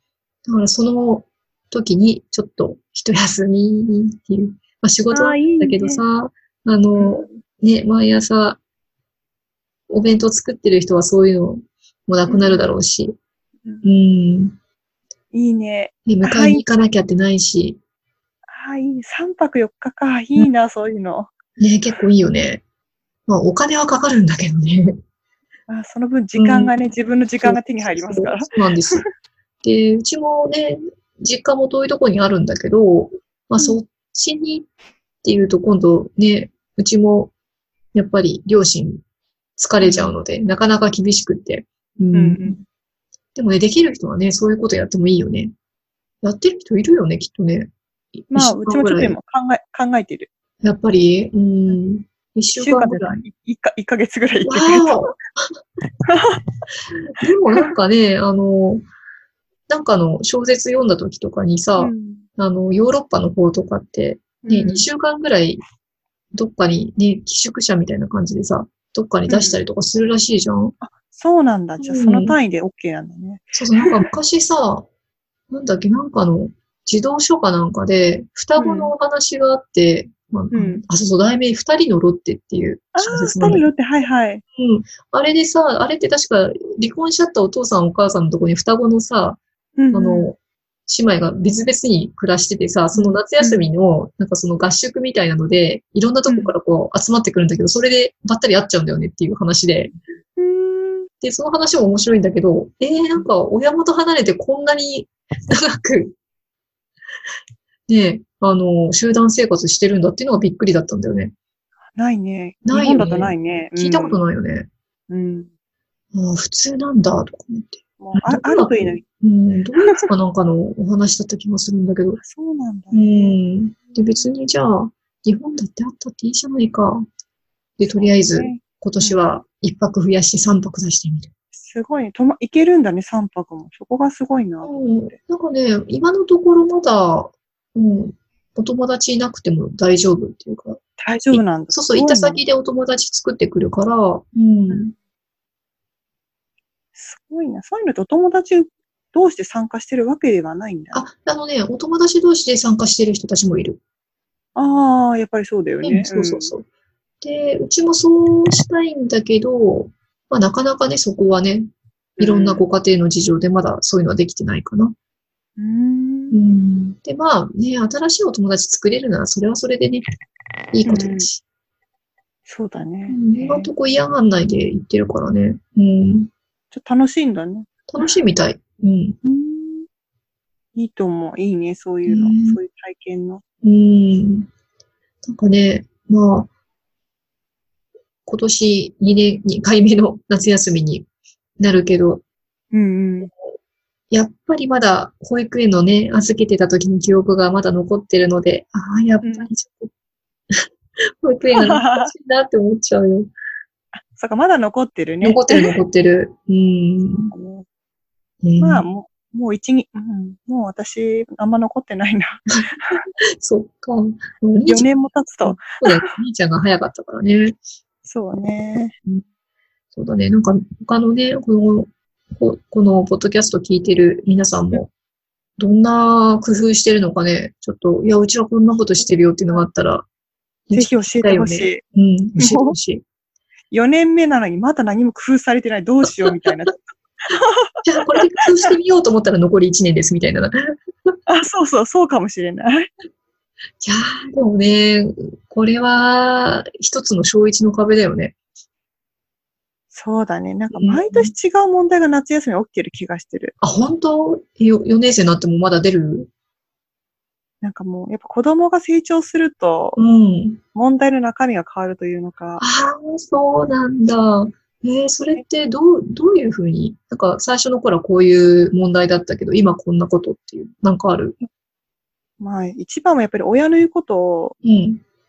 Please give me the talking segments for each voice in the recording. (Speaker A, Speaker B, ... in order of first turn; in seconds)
Speaker A: 0.5-8.6, 9.9-13.2, 13.8-14.6, 16.1-17.8, 21.6-22.6, 23.3-24.9, 26.4-26.7, 27.4-29.1, 29.6-34.7, 35.2-37.3, 37.9-39.0, 39.6-42.6, 43.4-45.5, 46.2-49.2, 50.6-53.2, 54.4-55.2, 57.1-58.8, 59.7-65.6, 66.3-70.8, 71.8-72.4, 73.5-74.8, 75.5-83.7, 84.6-89.4, 89.9-99.9, 101.2-106.2, 107.9-111.3, 112.7-114.7, 116.1-122.2, 122.9-127.1, 127.8-131.3, 134.6-140.8, 141.3-144.9, 150.9-153.8, 155.8-156.7, 157.2-164.9, 166.3-170.0, 170.7-171.4, 173.1-176.3, 177.9-179.2, 182.1-182.6, 183.6-184.5, 185.2-186.5, 188.3-191.1, 191.6-192.2, 194.1-199.9, 201.2-203.3, 205.2-207.3, 208.4-208.9, 213.4-214.9, 215.4-217.6, 219.9-224.9, 225.6-230.1, 230.7-233.0, 237.8-241.1, 243.8-248.3, 250.7-251.3, 253.6-256.3, 259.9-260.6, 262.6-271.4, 274.6-275.0
Speaker B: 5.1-6.0, 7.0-7.3, 12.3-12.7, 13.6-13.9, 15.3-16.6, 18.5-21.3, 25.7-29.0, 39.8-40.2, 42.1-42.6, 48.3-50.3, 52.5-55.1, 56.1-56.4, 61.8-62.2, 64.4-64.9, 69.3-69.6, 70.8-74.0, 78.6-78.9, 80.5-80.8, 82.9-84.4, 89.8-90.3, 92.9-93.7, 96.3-96.6, 100.3-101.1, 111.9-114.2, 115.1-115.5, 118.0-119.0, 122.2-123.4, 127.9-129.3, 131.6-134.8, 141.0-142.4, 146.9-151.1, 154.6-156.5, 162.2-162.7, 165.6-166.4, 170.8-171.3, 172.4-173.7, 176.7-178.1, 179.2-179.9, 180.8-183.4, 192.7-193.3, 199.2-199.5, 201.6-202.1, 203.9-205.7, 207.3-207.7, 208.6-213.1, 214.7-216.1, 218.1-218.9, 230.7-231.8, 232.3-232.8, 233.7-238.2, 241.3-242.9, 249.9-253.5, 257.6-260.0, 260.7-262.6, 272.4-274.6